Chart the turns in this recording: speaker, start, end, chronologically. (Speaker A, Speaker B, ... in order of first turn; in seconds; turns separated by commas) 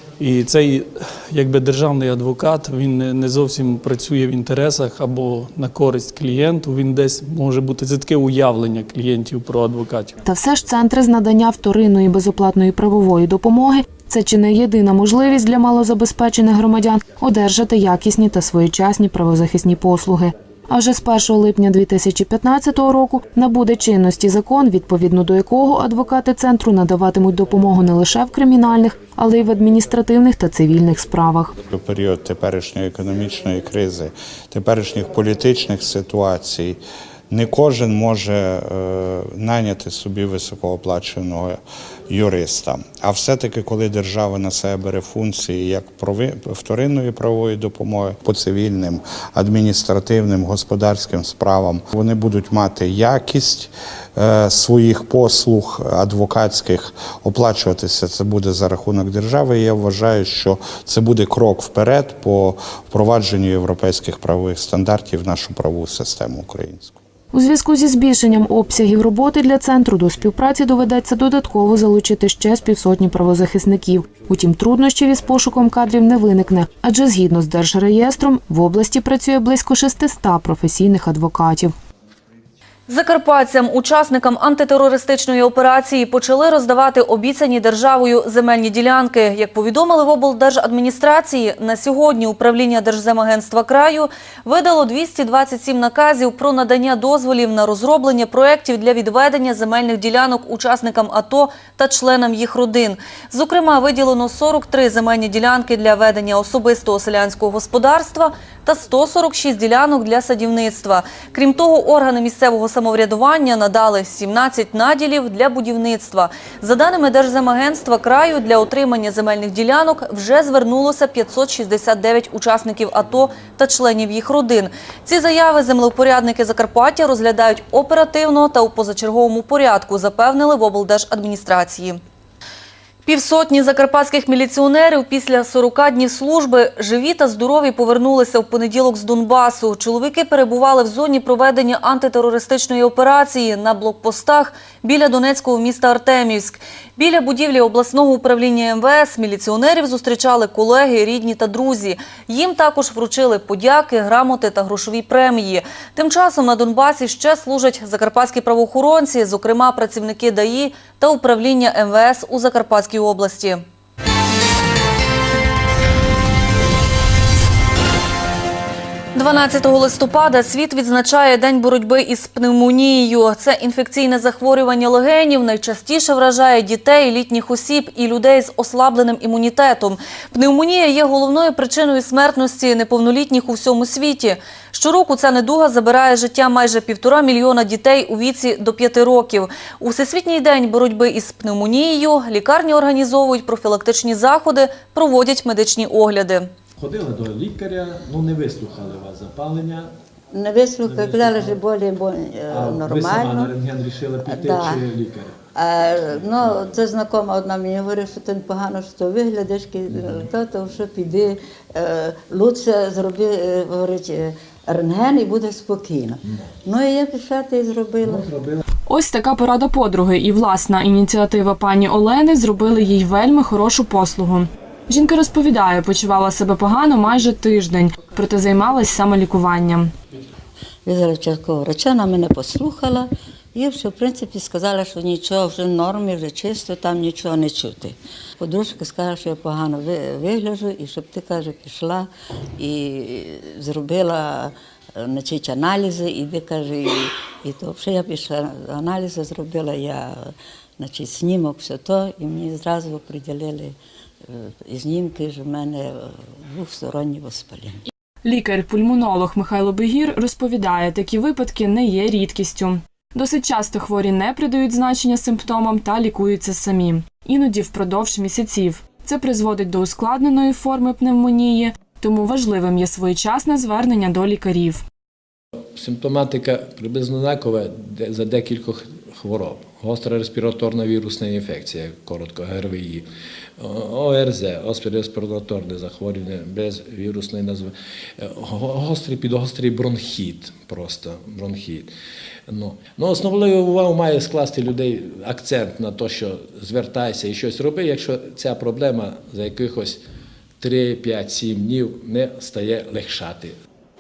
Speaker A: 0.2-10.1, Speaker B: 10.2-31.5, Speaker C: 31.7-67.0, Speaker B: 67.3-81.7, Speaker D: 82.9-132.0, Speaker D: 133.1-163.6, Speaker D: 169.1-196.5, Speaker E: 196.8-199.9, Speaker F: 200.3-203.6, Speaker E: 200.8-201.6, Speaker E: 202.5-205.3, Speaker F: 204.2-204.9, Speaker F: 205.5-218.5, Speaker E: 206.2-206.8, Speaker G: 218.9-229.9, Speaker F: 230.9-250.3, Speaker F: 250.8-253.8, Speaker F: 254.3-257.8, Speaker G: 258.2-274.8, Speaker E: 275.8-283.1, Speaker E: 283.6-291.9, Speaker E: 292.5-300.0, Speaker E: 300.6-303.5